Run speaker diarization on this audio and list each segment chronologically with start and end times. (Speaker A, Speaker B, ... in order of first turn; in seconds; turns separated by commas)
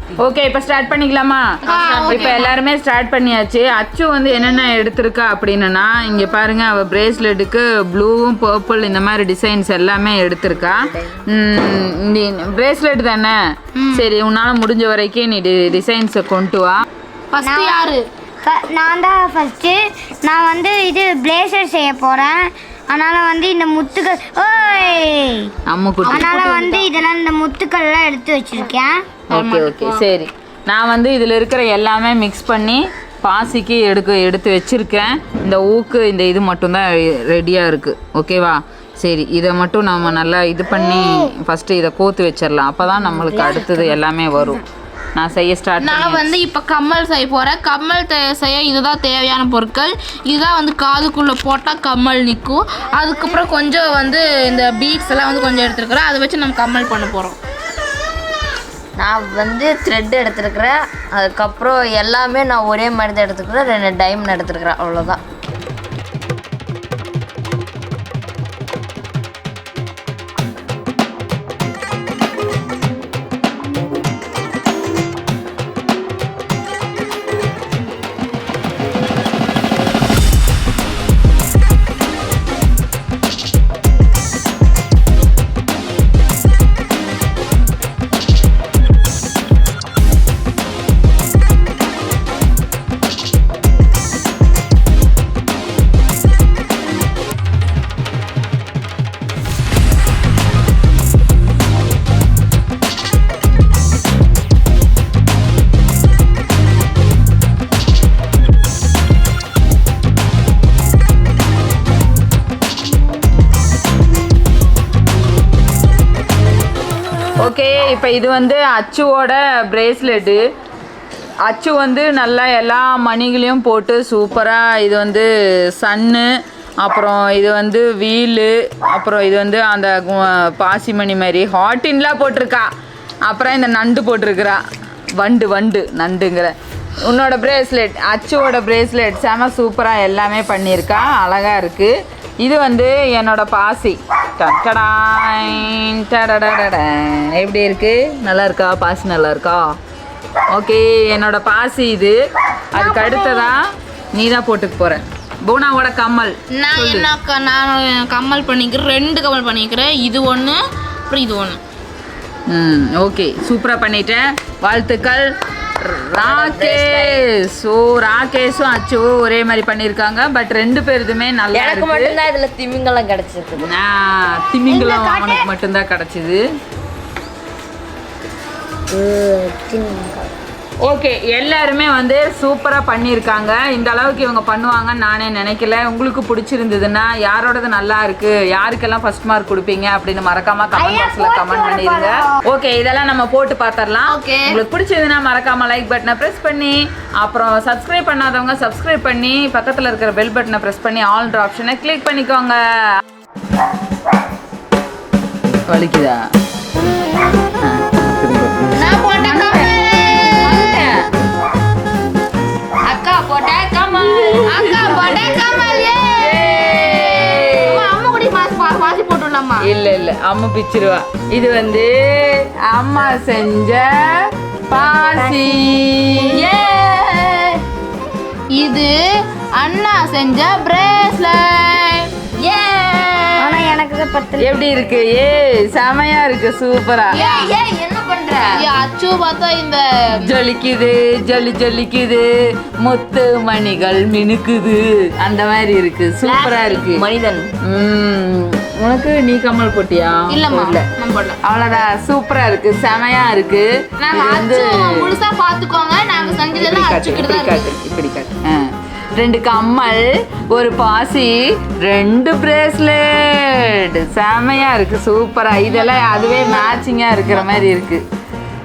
Speaker A: 0.2-13.4, Speaker B: 1.7-2.5, Speaker C: 1.7-2.4, Speaker B: 13.8-14.1, Speaker A: 13.9-16.8, Speaker B: 17.3-18.1, Speaker D: 17.4-17.9, Speaker D: 18.4-25.5, Speaker A: 25.7-26.3, Speaker B: 26.0-26.9, Speaker D: 26.1-29.1, Speaker A: 29.3-44.6, Speaker B: 29.3-30.0, Speaker D: 43.2-43.8, Speaker A: 45.2-46.4, Speaker B: 45.8-57.4, Speaker C: 59.0-65.2, Speaker A: 117.4-120.4, Speaker A: 121.5-125.3, Speaker A: 125.8-126.3, Speaker A: 126.8-132.7, Speaker A: 133.3-134.6, Speaker A: 135.2-149.7, Speaker A: 150.5-152.2, Speaker A: 152.7-157.1, Speaker D: 152.8-153.5, Speaker B: 156.5-161.6, Speaker A: 162.5-165.3, Speaker A: 165.8-172.2, Speaker C: 166.2-167.2, Speaker C: 171.5-173.7, Speaker A: 173.6-176.4, Speaker D: 174.7-175.5, Speaker C: 178.9-180.3, Speaker A: 180.8-203.0, Speaker D: 190.8-192.3, Speaker B: 194.1-194.6, Speaker A: 205.7-206.2, Speaker A: 207.6-209.8, Speaker B: 208.7-210.8, Speaker A: 210.3-210.9, Speaker C: 212.9-215.3, Speaker A: 213.9-217.8, Speaker B: 214.5-219.7, Speaker A: 219.6-227.4, Speaker D: 225.2-225.6, Speaker B: 228.5-229.0, Speaker B: 229.6-232.1, Speaker C: 232.4-233.7, Speaker D: 233.4-234.6, Speaker A: 234.4-237.2, Speaker B: 237.1-237.5, Speaker C: 237.1-238.7, Speaker B: 238.5-240.3, Speaker A: 240.2-242.3, Speaker A: 242.8-247.1, Speaker C: 246.2-247.5, Speaker A: 247.6-250.8, Speaker B: 250.3-251.4, Speaker A: 251.4-255.2, Speaker B: 254.0-257.7, Speaker A: 256.2-268.0